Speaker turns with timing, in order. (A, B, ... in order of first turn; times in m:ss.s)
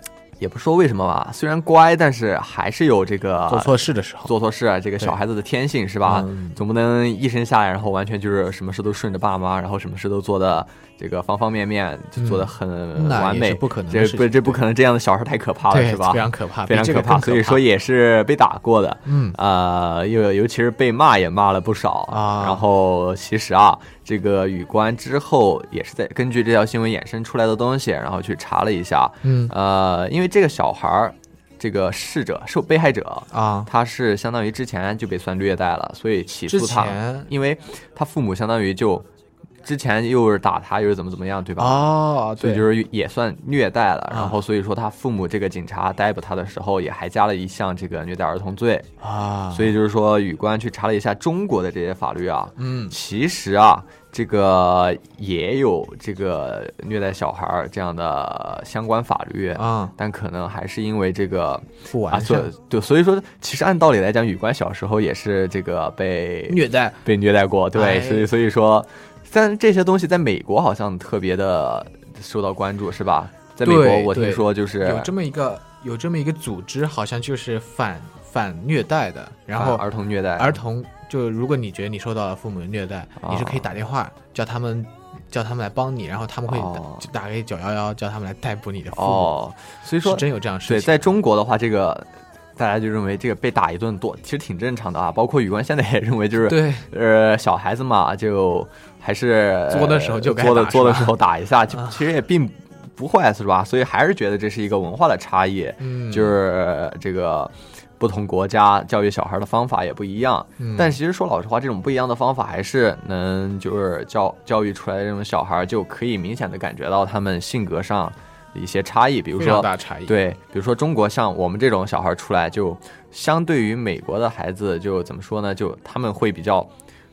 0:00.4-0:39.1 A
0:03.5-0:04.3 B
0:06.0-0:06.6 B
0:12.2-0:14.6 B
0:15.7-0:17.6 B
0:19.1-0:19.4 B
0:22.1-0:22.6 B
0:29.2-0:29.5 B
0:33.3-0:33.7 B
0:36.5-0:37.3 B
0:39.6-0:48.9 A
0:41.6-0:42.6 B
0:44.1-0:44.4 B
0:49.0-0:49.8 B
0:49.5-1:15.1 A
0:52.6-0:53.0 B
0:59.6-0:59.9 B
1:01.9-1:02.5 B
1:06.5-1:07.0 B
1:07.7-1:08.3 B
1:13.6-1:19.8 B
1:19.5-1:20.6 A
1:20.4-1:29.3 B
1:23.2-1:23.7 A
1:26.5-1:27.1 A
1:28.9-2:06.7 A
1:30.0-1:31.0 B
1:36.4-1:36.9 B
1:39.7-1:41.2 B
1:41.7-1:42.0 B
1:45.8-1:46.4 B
1:50.6-1:51.0 B
1:59.4-2:00.2 B